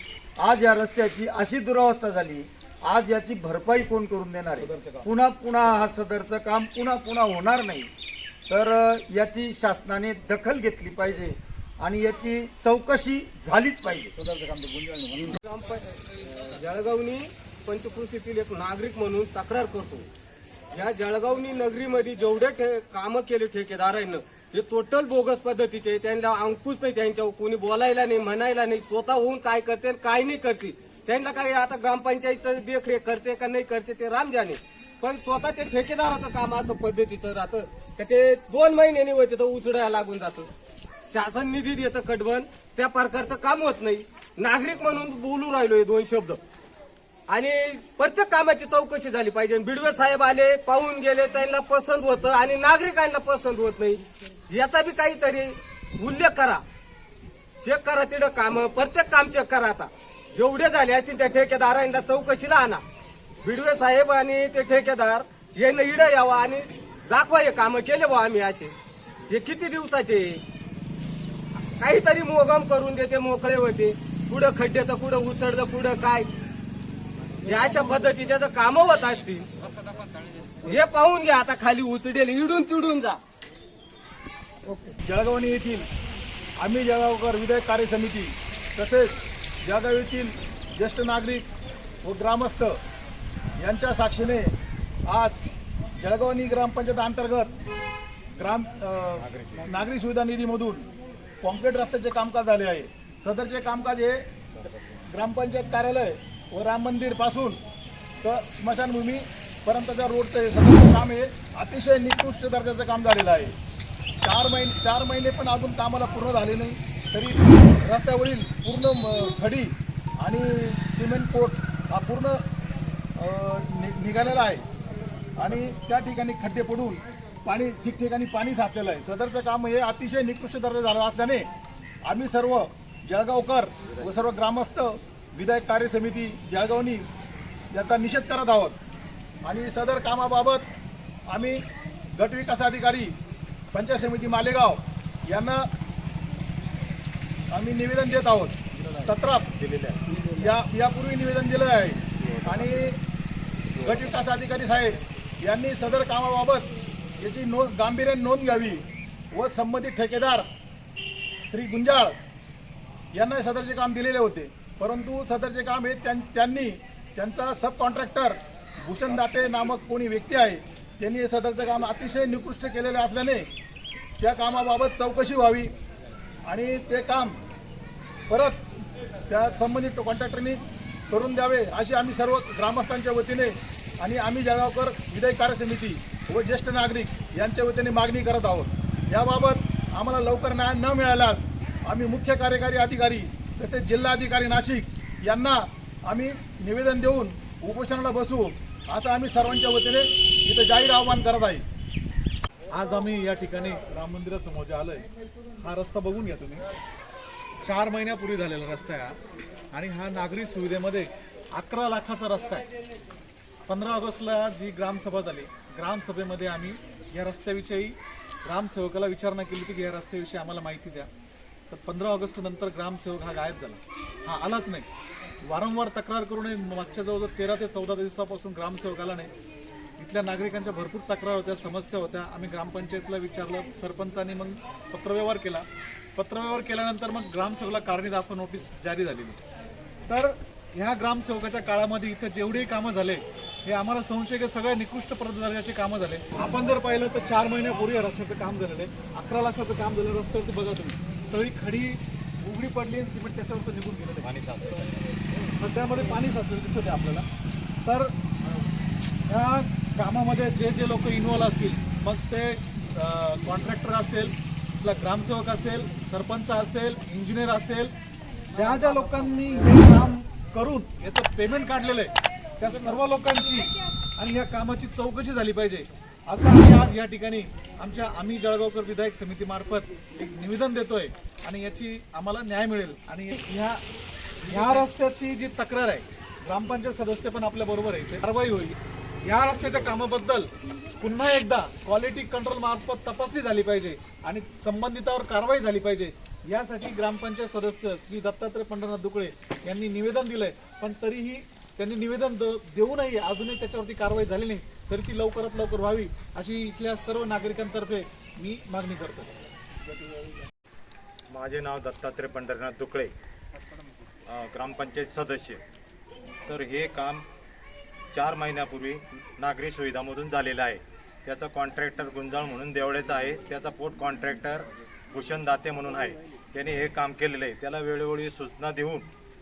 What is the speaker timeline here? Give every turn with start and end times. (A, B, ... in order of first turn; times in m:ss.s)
0:00.4-0:07.9 A
0:04.6-0:05.1 B
0:08.5-0:14.1 A
0:14.2-0:15.4 B
0:15.4-0:20.1 C
0:20.7-0:40.5 C
0:41.1-0:46.4 C
0:47.3-0:56.6 C
0:57.6-1:02.8 C
1:03.4-1:08.7 C
1:09.3-1:10.4 C
1:11.8-1:16.3 C
1:17.4-1:19.5 C
1:20.6-1:23.2 C
1:25.0-1:25.8 B
1:26.6-1:31.5 B
1:32.0-1:32.8 B
1:33.6-1:34.5 B
1:35.1-1:35.4 B
1:36.0-1:37.5 B
1:38.4-1:40.9 B
1:39.2-1:39.7 D
1:41.4-1:44.2 B
1:45.1-1:47.6 B
1:48.2-1:53.5 B
1:54.2-2:02.4 B
2:03.2-2:04.6 B
2:05.4-2:11.5 B
2:12.0-2:17.1 B
2:17.7-2:18.8 B
2:19.4-2:20.7 B
2:21.3-2:21.6 B
2:22.2-2:23.1 B
2:23.7-2:25.7 B
2:27.5-2:29.5 B
2:28.8-2:30.0 D
2:30.4-2:33.0 B
2:32.2-2:32.7 D
2:33.8-2:34.2 D
2:33.8-2:40.5 B
2:41.5-2:42.2 B
2:43.1-2:53.5 B
2:54.2-2:55.7 B
2:56.5-2:57.4 B
2:58.3-2:58.7 B
2:59.3-3:21.6 B
3:22.7-3:25.1 E
3:25.6-3:26.6 E
3:27.6-3:29.2 E
3:29.7-3:32.6 E
3:33.7-3:41.1 E
3:41.7-3:44.9 E
3:45.4-3:49.3 E
3:50.0-3:55.6 E
3:56.2-3:59.4 E
4:00.1-4:14.3 E
4:14.2-4:15.0 D
4:15.6-4:17.3 E
4:17.8-4:18.1 E
4:19.3-4:27.9 E
4:28.5-4:43.8 E
4:44.5-5:09.3 E
5:11.3-5:13.1 D
5:14.3-5:15.6 D
5:16.5-5:17.2 D
5:18.1-5:29.1 D